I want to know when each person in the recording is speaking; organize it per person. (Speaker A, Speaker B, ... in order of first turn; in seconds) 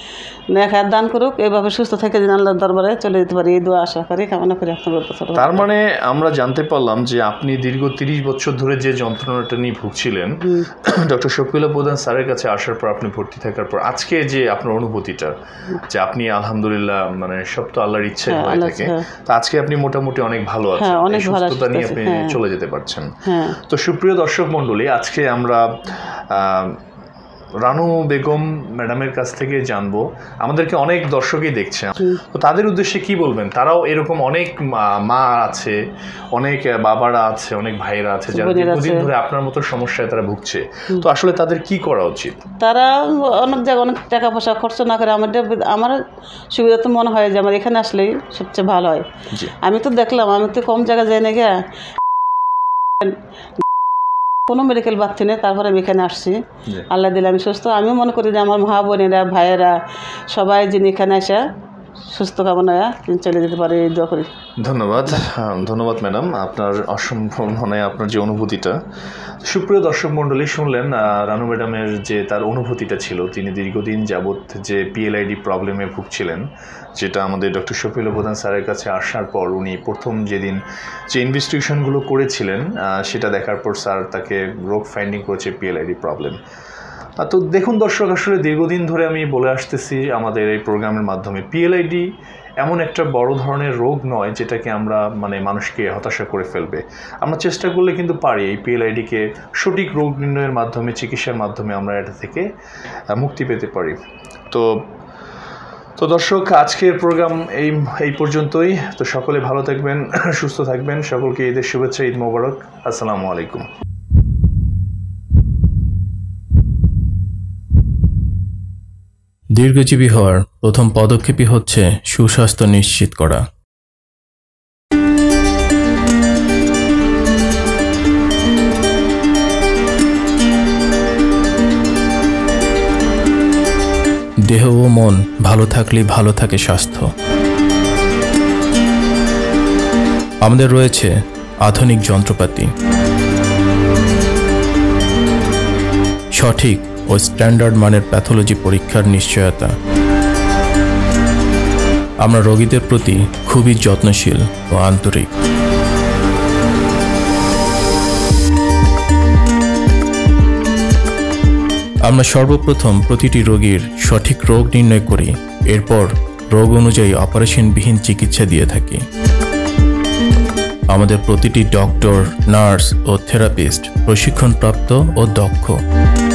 Speaker A: 0.5-5.7, 18.3-19.0, 20.8-22.4, 23.2-23.6, 38.3-39.1, 42.6-46.0, 46.5-49.1, 49.6-51.5, 54.5-56.4, 56.9-59.7, 60.3-61.4, 62.1-64.3
Speaker B: 5.4-15.3, 15.9-26.8, 27.6-35.8, 36.4-42.4, 64.6-68.8, 69.4-80.6, 81.1-86.4, 87.2-92.1, 92.6-102.5, 103.1-104.0, 104.5-104.8, 106.0-113.7
Speaker C: 119.6-123.4, 134.5-137.1, 140.4-141.1, 141.7-142.7, 146.4-149.7, 152.2-155.3, 162.1-169.0, 170.9-175.8